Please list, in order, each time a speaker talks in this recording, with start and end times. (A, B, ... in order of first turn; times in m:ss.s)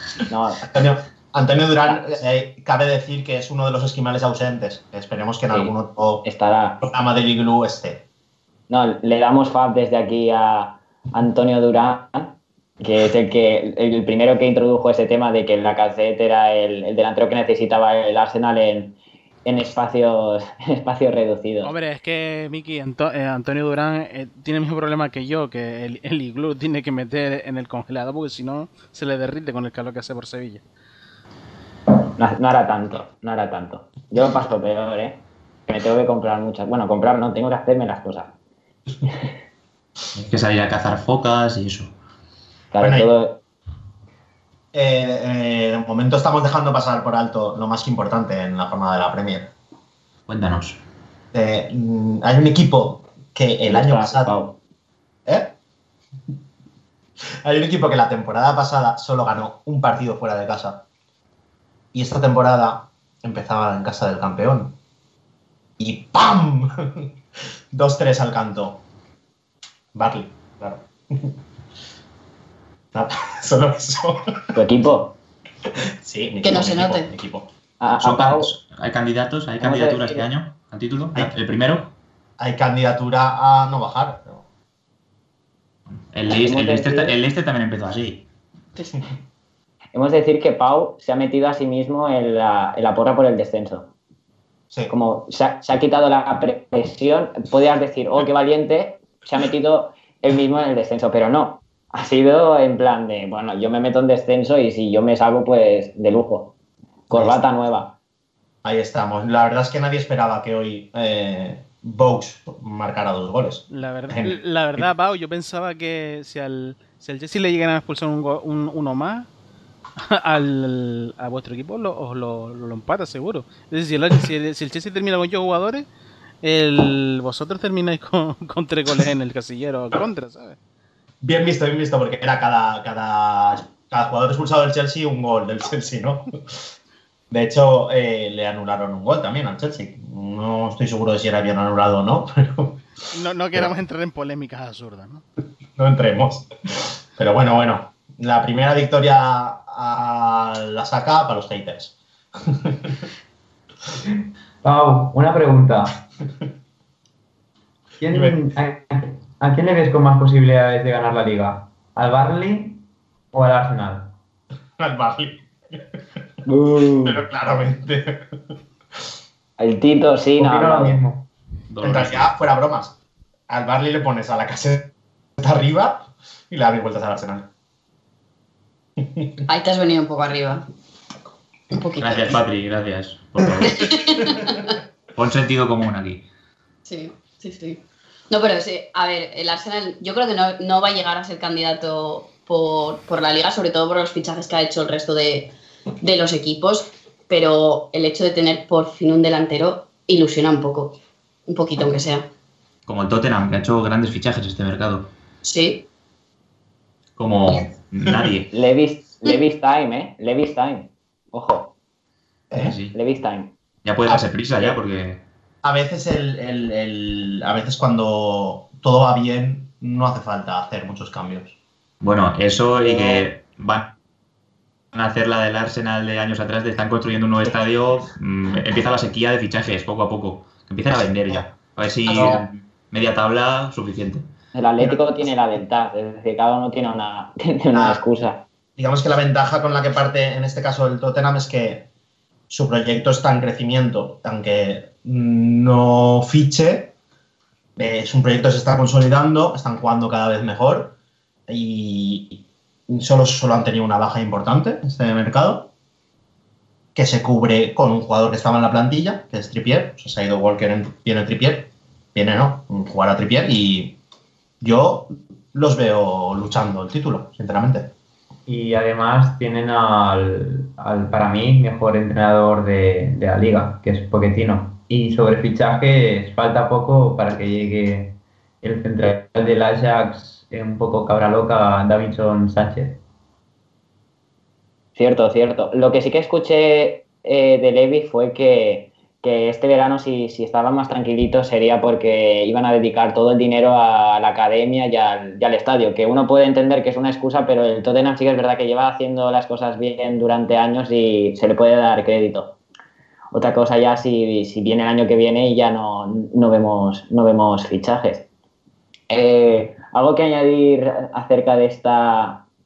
0:00.3-0:00.7 A
0:00.6-0:06.2 B
0:06.2-0:06.8 A
0:06.8-0:08.0 B
0:08.7-0:18.9 A
0:19.4-0:21.7 A
0:21.6-0:30.6 C
0:32.2-0:38.3 A
0:40.2-0:41.9 D
0:42.7-0:43.3 A
0:42.8-0:43.1 B
0:44.7-0:49.5 B
0:50.3-0:50.8 D
0:51.3-0:54.3 B
0:53.6-0:54.5 A
0:55.2-0:55.5 B
0:57.4-1:00.8 B
1:01.9-1:04.7 B
1:05.8-1:07.0 B
1:07.7-1:08.8 B
1:09.9-1:11.3 B
1:12.9-1:14.2 B
1:14.5-1:15.1 A
1:16.0-1:17.5 B
1:16.4-1:17.1 E
1:17.8-1:18.5 A
1:18.0-1:21.9 D
1:19.6-1:20.2 A
1:22.4-1:24.4 B
1:26.1-1:28.2 D
1:26.3-1:27.1 A
1:29.9-1:33.8 A
1:34.9-1:46.5 A
1:47.1-1:47.9 A
1:47.1-1:47.4 B
1:48.6-1:54.9 B
1:53.7-1:59.3 C
2:00.0-2:05.9 C
2:06.4-2:10.6 C
2:11.2-2:16.6 B
2:17.3-2:22.8 B
2:23.1-2:25.2 C
2:25.8-2:31.9 B
2:32.5-2:33.0 B
2:34.6-2:36.0 F
2:38.0-2:44.1 F
2:38.1-2:38.4 B
2:44.8-2:45.8 B
2:46.4-2:47.2 A
2:47.0-2:48.2 B
2:49.6-2:51.0 A
2:50.4-2:51.3 F
2:51.7-2:52.3 D
2:51.8-2:52.9 B
2:53.5-2:54.9 B
2:55.4-2:57.4 B
2:59.0-2:59.3 B
2:59.5-3:00.6 E
3:01.7-3:02.4 E
3:02.0-3:04.0 D
3:03.6-3:04.7 E
3:04.0-3:04.4 B
3:05.2-3:06.2 D
3:06.8-3:20.9 E
3:21.4-3:22.2 E
3:22.9-3:25.1 D
3:25.4-3:25.8 E
3:27.2-3:28.5 D
3:28.5-3:31.7 A
3:32.5-3:32.8 B
3:32.5-3:32.9 D
3:32.9-3:33.5 A
3:33.8-3:35.2 D
3:34.1-3:34.7 B
3:35.6-3:41.5 B
3:42.0-3:43.9 D
3:42.8-3:43.2 A
3:44.9-3:54.2 D
3:52.1-3:52.4 B
3:54.5-3:58.4 A
3:57.7-3:58.0 B
3:58.8-4:01.8 B
4:02.5-4:06.9 B
4:07.8-4:10.9 B
4:11.5-4:15.7 B
4:16.9-4:24.0 B
4:24.6-4:27.9 B
4:28.5-4:43.0 F
4:45.0-5:02.5 A
5:03.3-5:08.2 A
5:09.1-5:12.4 A